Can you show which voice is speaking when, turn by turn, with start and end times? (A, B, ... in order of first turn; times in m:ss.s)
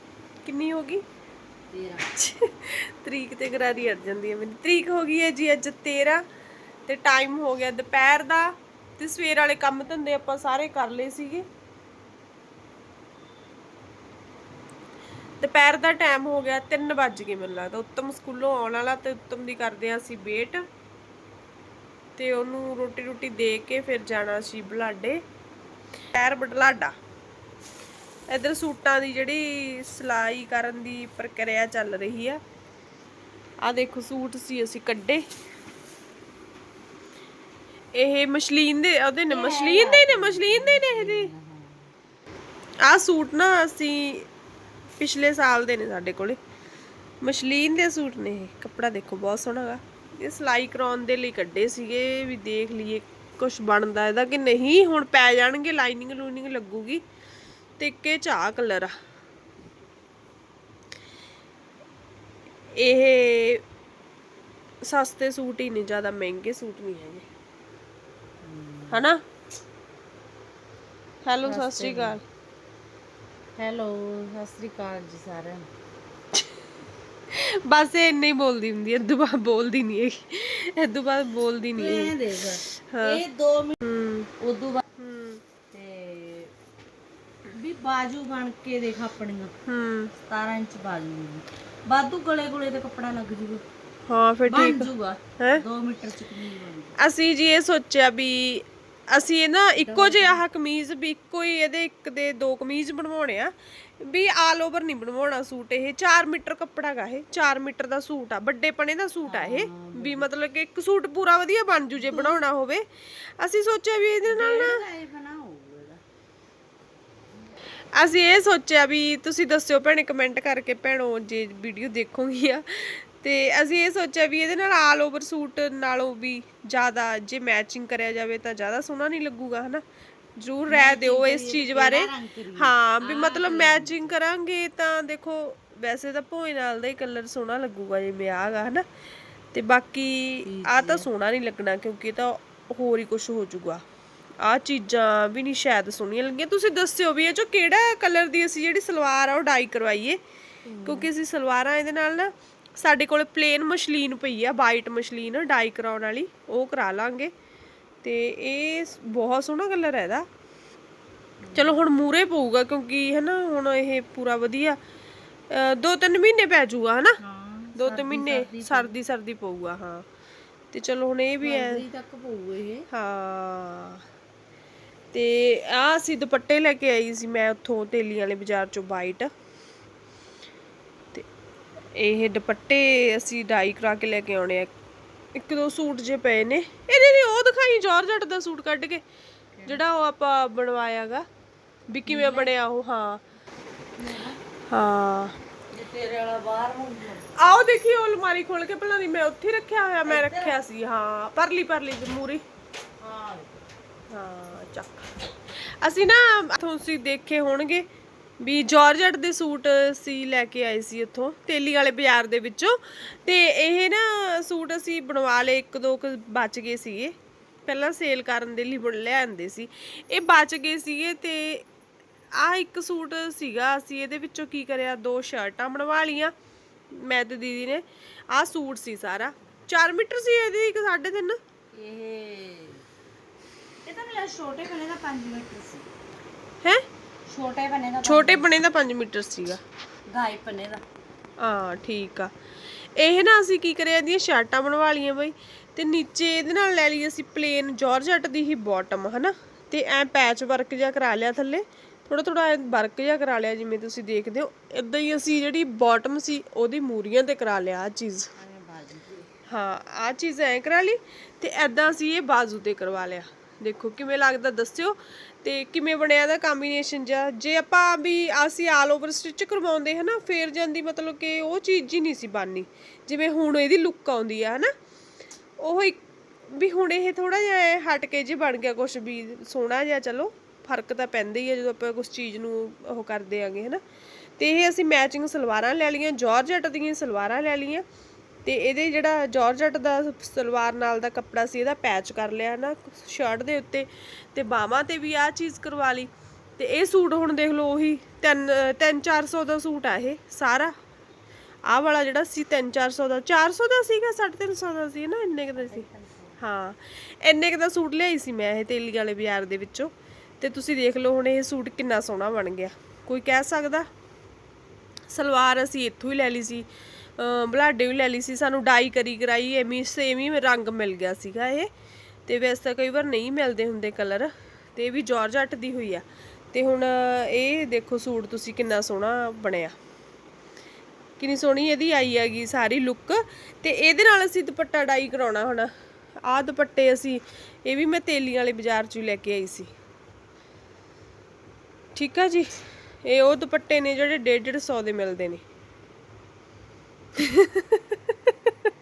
0:00.4-0:01.0 A
0:01.7-0:02.1 B
0:02.1-0:06.2 A
0:06.8-0:11.4 A
0:15.4-0:20.6 A
0:22.2-0:25.2 A
0:26.1-0:26.9 A
0:28.3-0:32.4 A
0:33.6-0:35.2 A
0:38.0-0:41.3 A
0:39.3-0:41.9 B
0:42.8-0:44.3 A
0:45.0-0:46.4 A
0:47.2-0:57.0 A
0:57.8-0:58.9 A
1:02.8-1:03.6 A
1:04.8-1:07.2 A
1:08.4-1:09.0 B
1:08.9-1:09.2 A
1:11.2-1:12.2 A
1:11.4-1:12.2 B
1:13.6-1:15.6 B
1:17.3-1:22.1 A
1:21.7-1:23.8 B
1:22.8-1:23.2 A
1:23.8-1:24.3 A
1:24.4-1:24.8 B
1:25.0-1:25.4 A
1:25.7-1:26.5 B
1:27.5-1:29.5 B
1:29.7-1:30.1 A
1:30.2-1:33.6 B
1:34.1-1:35.6 A
1:34.4-1:37.0 B
1:37.0-1:52.8 A
1:39.8-1:40.4 B
1:49.2-1:50.3 B
1:52.0-1:52.4 B
1:53.4-1:54.8 A
1:54.2-1:56.0 B
1:57.9-2:09.8 A
2:10.4-2:18.8 A
2:10.7-2:14.1 B
2:19.5-2:23.8 A
2:20.4-2:21.1 B
2:24.4-2:30.2 A
2:30.7-2:31.1 B
2:30.8-2:37.3 A
2:38.0-2:40.2 A
2:41.4-2:41.9 B
2:41.5-2:44.8 A
2:45.5-2:47.2 A
2:47.2-2:49.0 B
2:47.8-2:50.0 A
2:50.7-2:51.8 A
2:51.4-2:52.9 B
2:52.9-2:54.0 A
2:55.1-2:59.3 A
3:01.9-3:04.7 A
3:05.4-3:09.0 A
3:09.6-3:11.2 A
3:11.9-3:13.2 A
3:12.0-3:12.5 B
3:14.0-3:14.4 B
3:14.7-3:15.3 A
3:15.7-3:17.3 B
3:17.4-3:22.4 A
3:20.0-3:20.6 B
3:23.0-3:23.5 B
3:24.1-3:25.1 A
3:25.8-3:27.8 A
3:28.4-3:37.1 A
3:37.6-3:41.6 A
3:42.3-3:46.3 A
3:46.9-3:51.4 A
3:51.7-3:52.8 B
3:53.8-3:55.9 B
3:57.3-3:58.6 B
3:58.0-3:59.6 A
4:00.1-4:00.8 B
4:01.4-4:02.3 A
4:03.0-4:18.3 A
4:18.3-4:19.3 B
4:19.5-4:34.7 A
4:35.6-4:43.8 A
4:44.4-4:47.8 A
4:48.4-5:00.7 A
5:01.7-5:05.9 A
5:05.6-5:06.4 B
5:06.4-5:13.9 A
5:15.1-5:16.7 A
5:17.2-5:21.7 A
5:22.3-5:29.7 A
5:31.2-5:35.7 A
5:36.3-5:39.7 A
5:41.9-5:42.5 A
5:43.0-5:45.4 A
5:47.2-5:48.5 A